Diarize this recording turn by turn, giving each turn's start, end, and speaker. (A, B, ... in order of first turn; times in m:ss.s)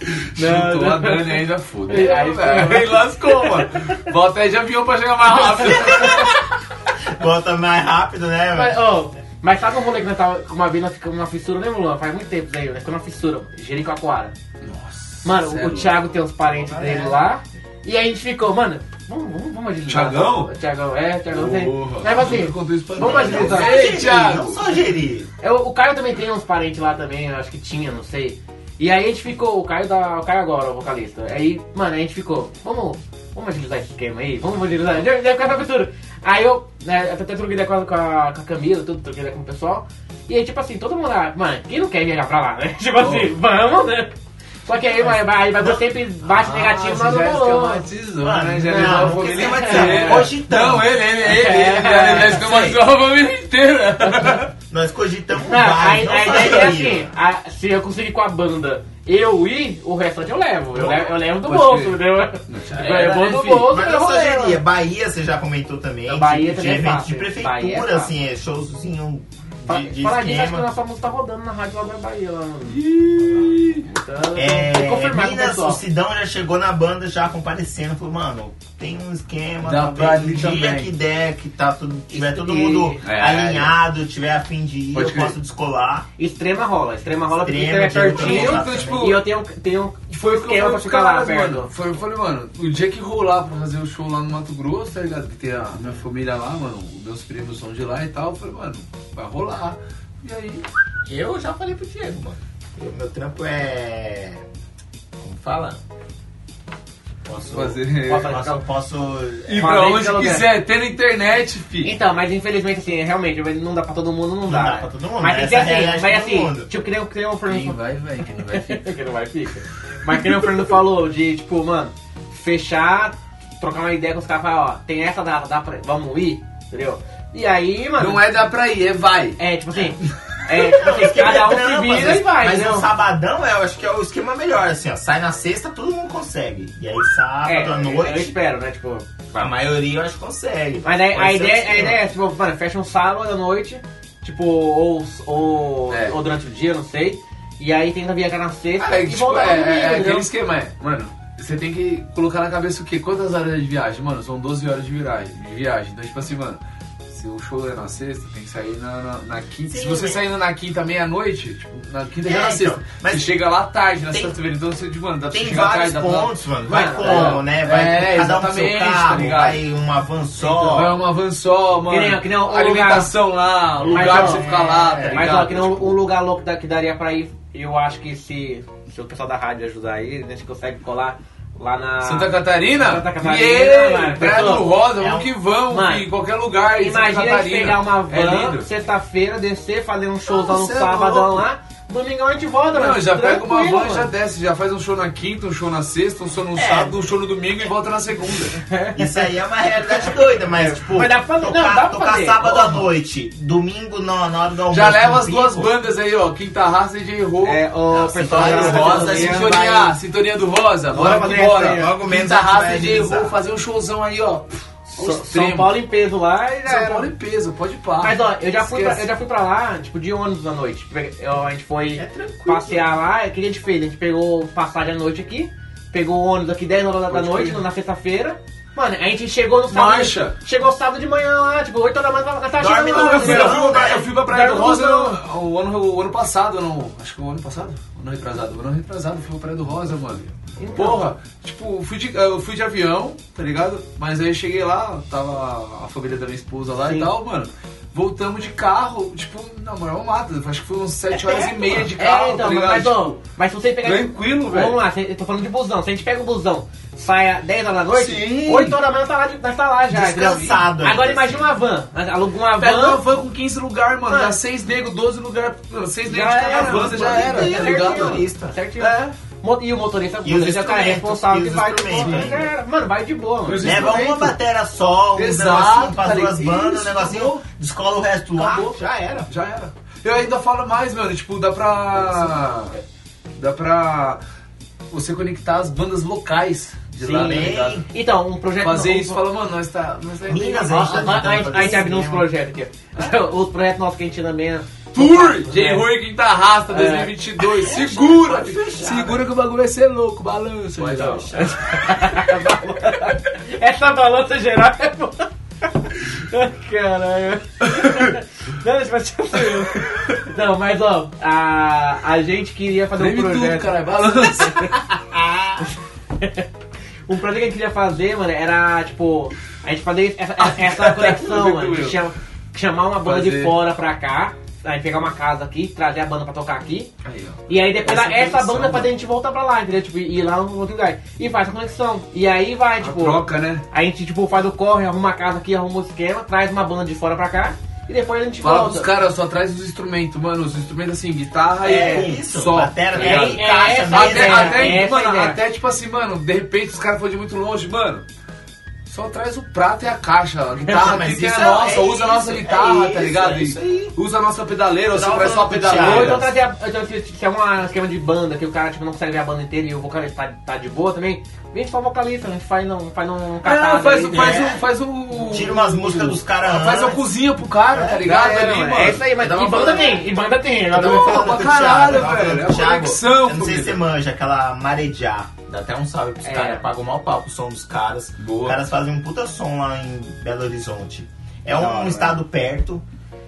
0:00.4-0:03.6 A
0:00.4-0:06.4 B
0:05.4-0:05.7 A
0:05.7-0:06.4 C
0:07.0-0:08.8 C
0:08.5-0:14.4 A
0:14.6-0:16.1 B
0:15.2-0:23.9 A
0:16.5-0:17.2 C
0:19.9-0:20.5 B
0:21.3-0:24.6 B
0:23.0-0:25.3 C
0:25.4-0:44.1 A
0:43.0-0:43.4 B
0:44.6-0:47.8 A
0:44.9-0:45.8 C
0:46.2-0:54.5 B
0:48.2-0:51.0 C
0:48.6-0:50.3 A
0:51.2-0:52.7 A
0:52.3-0:52.8 C
0:54.0-0:54.4 A
0:54.7-0:57.1 C
0:55.5-1:04.6 A
1:00.8-1:03.7 B
1:02.7-1:10.7 C
1:06.1-1:08.1 A
1:09.7-1:15.8 A
1:12.7-1:13.9 B
1:14.4-1:26.1 C
1:19.6-1:20.9 B
1:22.1-1:23.0 A
1:23.0-1:23.8 B
1:24.9-1:25.4 B
1:26.2-1:31.7 A
1:27.3-1:29.1 C
1:28.1-1:29.2 B
1:30.1-1:40.7 B
1:41.0-1:44.4 C
1:45.2-1:45.8 C
1:47.2-1:49.8 C
1:47.5-1:48.4 B
1:48.0-1:48.6 A
1:49.5-1:52.0 B
1:49.6-1:50.5 A
1:51.8-1:57.8 A
1:54.5-1:56.7 C
1:57.5-1:59.0 B
1:58.5-2:08.2 A
2:00.1-2:00.5 B
2:08.0-2:09.4 B
2:09.4-2:12.9 A
2:10.5-2:18.3 C
2:17.4-2:19.5 A
2:19.4-2:22.0 C
2:20.8-2:30.3 A
2:25.9-2:26.2 B
2:28.8-2:49.6 B
2:39.7-2:40.2 C
2:42.2-2:43.3 C
2:45.3-2:51.0 C
2:46.7-2:47.4 A
2:50.4-2:50.8 A
2:50.6-2:56.0 B
2:51.9-2:53.1 A
2:53.8-2:55.2 C
2:53.9-2:54.5 A
2:55.1-3:04.8 A
3:02.0-3:08.7 B
3:04.9-3:05.3 C
3:05.7-3:06.1 A
3:06.8-3:14.1 A
3:10.4-3:11.4 B
3:12.7-3:18.6 B
3:16.6-3:16.9 C
3:18.6-3:19.3 A
3:19.0-3:25.7 C
3:20.6-3:22.8 A
3:24.7-3:27.6 B
3:27.4-3:29.5 A
3:27.9-3:30.0 C
3:28.3-3:35.8 B
3:30.9-3:31.9 A
3:31.4-3:33.4 C
3:34.9-3:37.1 A
3:36.7-3:39.1 B
3:38.0-3:55.2 A
3:42.0-3:42.9 C
3:47.1-3:47.6 B
3:49.7-3:50.4 B
3:52.6-3:54.1 C
3:52.9-4:13.1 B
4:00.6-4:01.1 A
4:06.7-4:07.1 A
4:11.1-4:11.9 C
4:11.9-4:23.0 A
4:13.8-4:14.8 B
4:17.9-4:18.8 B
4:19.9-4:21.5 C
4:22.6-4:28.3 B
4:24.1-4:24.4 A
4:26.1-4:34.0 A
4:26.5-4:28.6 C
4:28.8-4:29.0 B
4:30.2-4:32.5 C
4:32.0-4:32.3 B
4:33.5-4:34.4 B
4:33.6-4:39.3 C
4:35.2-4:37.4 B
4:38.4-4:42.8 B
4:43.4-4:44.2 B
4:44.9-4:47.8 B
4:47.0-4:49.2 A
4:47.2-4:47.9 C
4:48.6-4:51.2 B
4:50.3-4:52.3 C
4:50.6-4:55.9 A
4:54.9-5:01.3 B
4:56.7-4:57.7 A
4:57.6-4:59.2 C
5:00.8-5:01.8 C
5:01.3-5:05.3 A
5:05.8-5:14.7 A
5:07.7-5:08.1 B
5:09.5-5:09.8 B
5:13.0-5:14.8 B
5:15.1-5:15.6 C
5:15.6-5:16.5 A
5:17.1-5:26.9 A
5:20.4-5:22.0 B
5:23.0-5:23.6 B
5:27.0-5:28.9 B
5:27.5-5:38.9 A
5:32.8-5:33.6 B
5:38.4-5:48.0 B
5:41.6-5:44.8 C
5:41.6-5:42.1 A
5:43.0-5:45.4 A
5:48.9-5:56.3 B
5:50.7-5:54.0 C
5:54.9-5:56.3 C
5:55.7-6:04.5 A
6:03.4-6:09.9 B
6:04.1-6:04.6 C
6:05.2-6:07.1 C
6:07.7-6:08.1 C
6:08.0-6:11.4 A
6:09.2-6:10.0 C
6:10.7-6:13.8 B
6:10.7-6:22.8 C
6:16.2-6:16.7 A
6:18.2-6:18.6 B
6:21.5-6:22.2 A